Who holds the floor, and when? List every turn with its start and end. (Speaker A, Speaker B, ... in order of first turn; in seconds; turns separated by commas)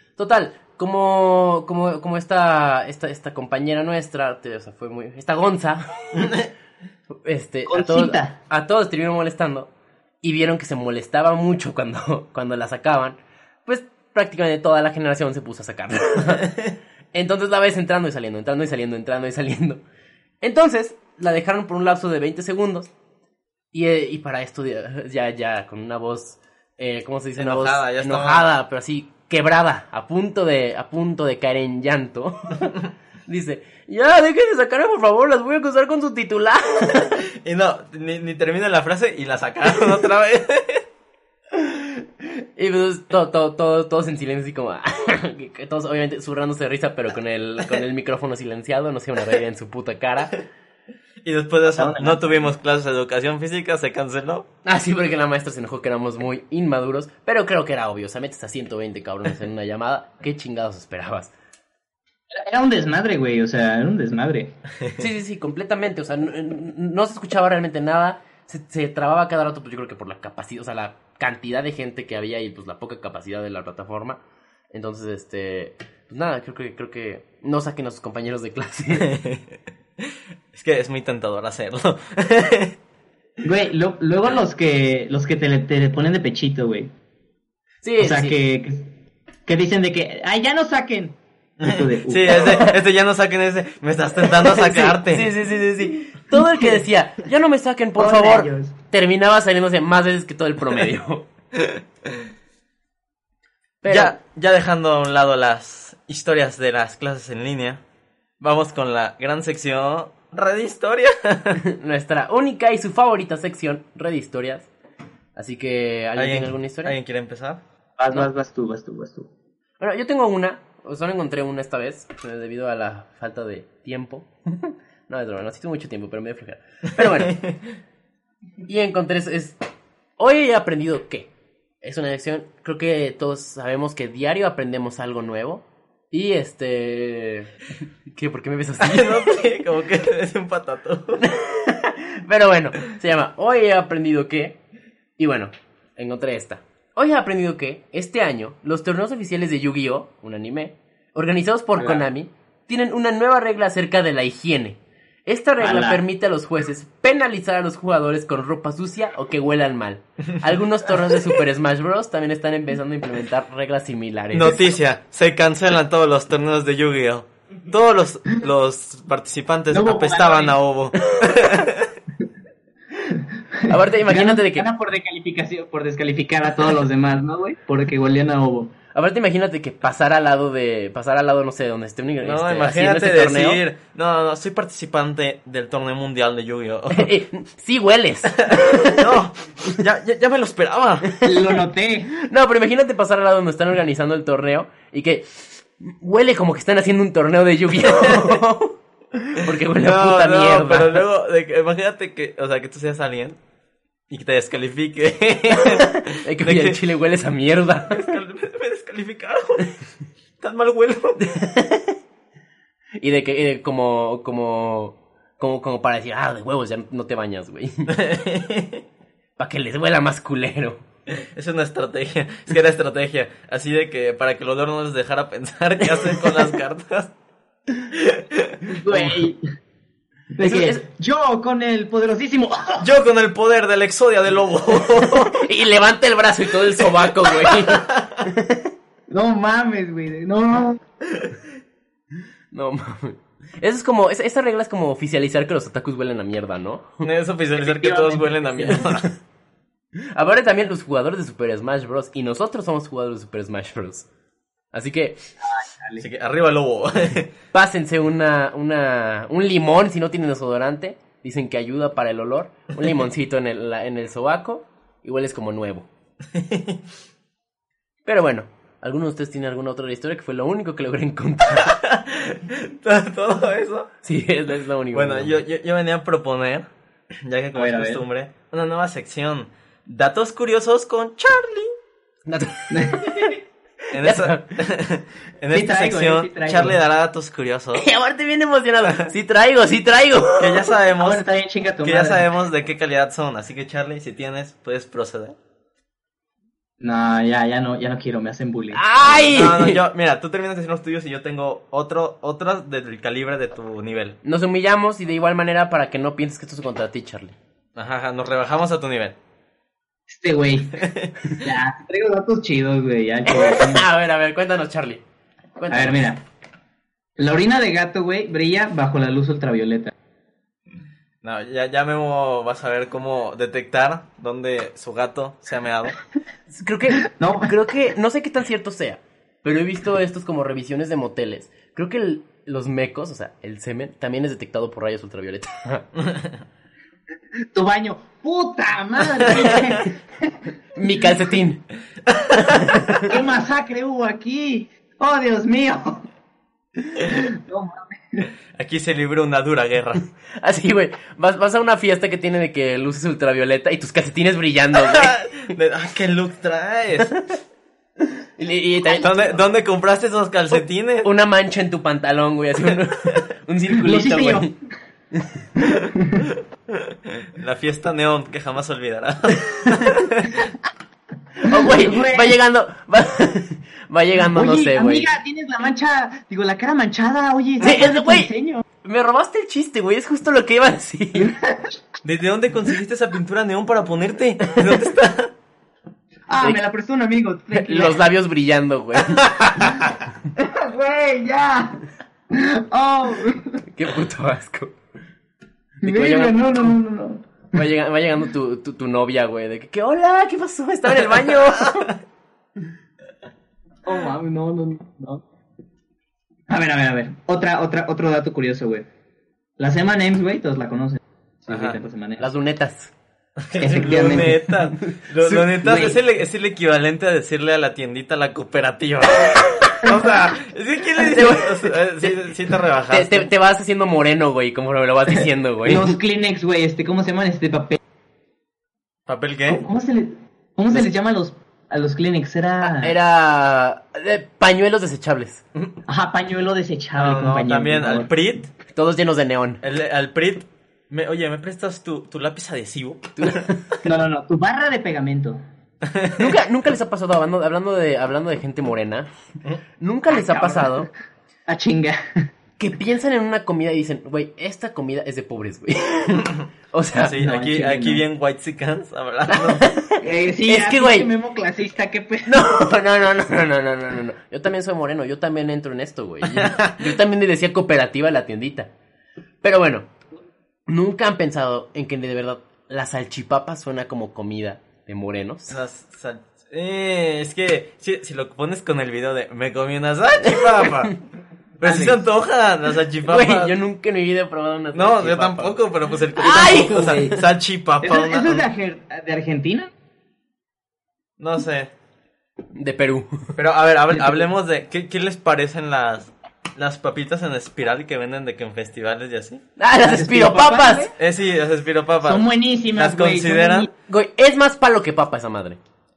Speaker A: 0.2-6.3, Speaker B: 6.2-6.5, Speaker A: 7.2-9.7, Speaker C: 7.7-8.4, Speaker A: 10.2-16.6, Speaker A: 17.1-19.8, Speaker A: 20.4-22.9, Speaker A: 23.7-32.7, Speaker B: 27.4-28.5, Speaker A: 33.3-37.2, Speaker B: 37.3-40.8, Speaker A: 41.6-41.9, Speaker A: 42.5-50.3, Speaker B: 51.2-54.5, Speaker C: 51.7-52.4, Speaker A: 54.6-61.3, Speaker C: 62.3-64.5, Speaker A: 65.0-79.1, Speaker B: 79.0-82.8, Speaker C: 83.4-86.9, Speaker A: 87.8-88.3, Speaker C: 88.0-88.9, Speaker C: 89.5-92.7, Speaker B: 91.6-95.3, Speaker A: 94.3-101.2, Speaker C: 96.3-96.8, Speaker C: 98.0-98.7, Speaker B: 101.5-101.8, Speaker A: 103.8-104.2, Speaker B: 103.9-107.8, Speaker B: 108.4-111.6, Speaker A: 111.6-114.7, Speaker A: 115.3-117.0, Speaker B: 116.2-117.6, Speaker C: 118.0-119.3, Speaker A: 119.8-127.4, Speaker B: 127.0-127.5, Speaker A: 128.7-129.6, Speaker A: 130.2-131.3, Speaker A: 131.8-137.5, Speaker A: 138.1-139.3, Speaker B: 138.8-141.2, Speaker A: 141.2-144.6, Speaker A: 145.2-164.6, Speaker C: 155.6-156.0, Speaker B: 164.3-171.9, Speaker C: 169.7-170.6, Speaker C: 173.1-178.7, Speaker A: 173.7-174.7, Speaker A: 178.9-183.6, Speaker B: 182.2-187.1, Speaker A: 186.9-189.0, Speaker B: 188.4-191.1, Speaker C: 191.2-192.2, Speaker A: 192.2-201.0, Speaker B: 199.7-203.4, Speaker B: 204.1-206.8, Speaker A: 205.5-208.1, Speaker B: 207.9-209.7, Speaker B: 210.4-211.4, Speaker A: 211.2-212.0, Speaker A: 213.0-218.0, Speaker B: 217.9-218.8, Speaker A: 219.4-220.8, Speaker B: 221.1-227.1, Speaker B: 227.9-228.6, Speaker C: 228.7-229.4, Speaker A: 228.9-229.2, Speaker C: 230.3-232.9, Speaker A: 230.4-230.8, Speaker B: 232.8-235.4, Speaker A: 235.0-238.7, Speaker C: 239.1-240.8, Speaker A: 242.5-247.0, Speaker B: 247.0-249.1, Speaker C: 247.6-248.9, Speaker A: 250.1-254.1, Speaker A: 254.7-255.2, Speaker C: 255.4-256.0, Speaker B: 256.0-257.3, Speaker A: 257.5-265.9, Speaker B: 266.3-266.8, Speaker A: 268.0-271.8, Speaker B: 271.6-273.9, Speaker A: 274.0-275.4, Speaker B: 274.9-281.7, Speaker C: 277.5-278.0, Speaker A: 282.3-283.3, Speaker C: 282.7-283.4, Speaker A: 283.9-284.6, Speaker B: 283.9-287.8, Speaker C: 285.5-286.8, Speaker A: 287.7-290.7, Speaker B: 290.4-291.2, Speaker C: 291.0-292.2, Speaker B: 291.8-295.4, Speaker C: 296.8-298.9, Speaker A: 298.7-299.8, Speaker B: 299.3-304.2, Speaker A: 304.2-307.4, Speaker B: 307.8-309.1, Speaker C: 310.1-313.9, Speaker B: 310.8-311.1, Speaker A: 313.3-315.0, Speaker A: 315.6-316.1, Speaker C: 315.7-316.2, Speaker C: 317.2-319.9, Speaker B: 321.2-326.0, Speaker A: 326.5-335.9, Speaker C: 327.0-327.5, Speaker C: 337.5-340.3, Speaker A: 340.8-341.6, Speaker B: 342.1-342.8, Speaker A: 342.4-343.1, Speaker C: 343.0-346.1, Speaker C: 347.0-348.3, Speaker B: 348.5-350.0, Speaker A: 350.4-355.2, Speaker B: 354.7-357.3, Speaker A: 358.4-359.4, Speaker B: 359.0-361.1, Speaker A: 361.0-364.6, Speaker C: 363.7-364.6, Speaker A: 365.1-365.5, Speaker C: 365.6-366.3, Speaker B: 366.7-370.4, Speaker A: 369.7-370.0, Speaker A: 371.4-375.1, Speaker C: 371.4-372.4, Speaker C: 374.2-378.6, Speaker A: 377.6-378.3, Speaker A: 378.8-381.3, Speaker C: 381.1-381.8, Speaker B: 382.0-385.3, Speaker C: 386.3-388.0, Speaker A: 387.5-389.9, Speaker C: 389.6-393.6, Speaker A: 393.7-394.7, Speaker A: 395.8-396.7, Speaker C: 395.8-397.6, Speaker A: 397.5-401.9, Speaker B: 401.1-401.9, Speaker C: 403.8-405.2, Speaker C: 406.5-408.9, Speaker C: 409.6-412.2, Speaker B: 411.5-411.8, Speaker A: 412.2-412.9, Speaker B: 413.4-423.3, Speaker C: 413.6-414.5, Speaker A: 414.9-416.0, Speaker A: 421.0-421.7, Speaker A: 422.9-426.0, Speaker C: 425.1-427.8, Speaker B: 429.1-429.6, Speaker C: 429.5-432.9, Speaker A: 432.6-435.4, Speaker C: 435.9-438.1, Speaker B: 436.9-438.5, Speaker A: 438.7-439.6, Speaker B: 439.6-443.5, Speaker A: 443.2-443.7, Speaker C: 443.8-445.4, Speaker B: 445.8-446.4, Speaker A: 446.2-449.1, Speaker A: 449.8-450.9, Speaker C: 450.1-450.9, Speaker C: 451.5-452.3, Speaker A: 452.6-457.2, Speaker B: 457.0-459.6, Speaker C: 457.2-458.0, Speaker A: 459.3-461.1, Speaker C: 460.0-462.8, Speaker A: 462.2-468.7, Speaker B: 466.2-466.9, Speaker A: 469.4-469.9, Speaker A: 470.7-475.6, Speaker B: 475.5-481.0, Speaker B: 481.6-483.6, Speaker C: 481.6-482.0, Speaker A: 483.0-485.6, Speaker B: 484.7-488.4, Speaker A: 486.1-487.1, Speaker C: 486.2-487.2, Speaker C: 487.8-489.7, Speaker B: 491.2-491.7, Speaker A: 492.5-493.4, Speaker B: 493.4-499.4, Speaker A: 499.6-500.9, Speaker C: 499.8-500.9, Speaker B: 501.0-503.7, Speaker C: 502.0-503.7, Speaker A: 503.9-505.6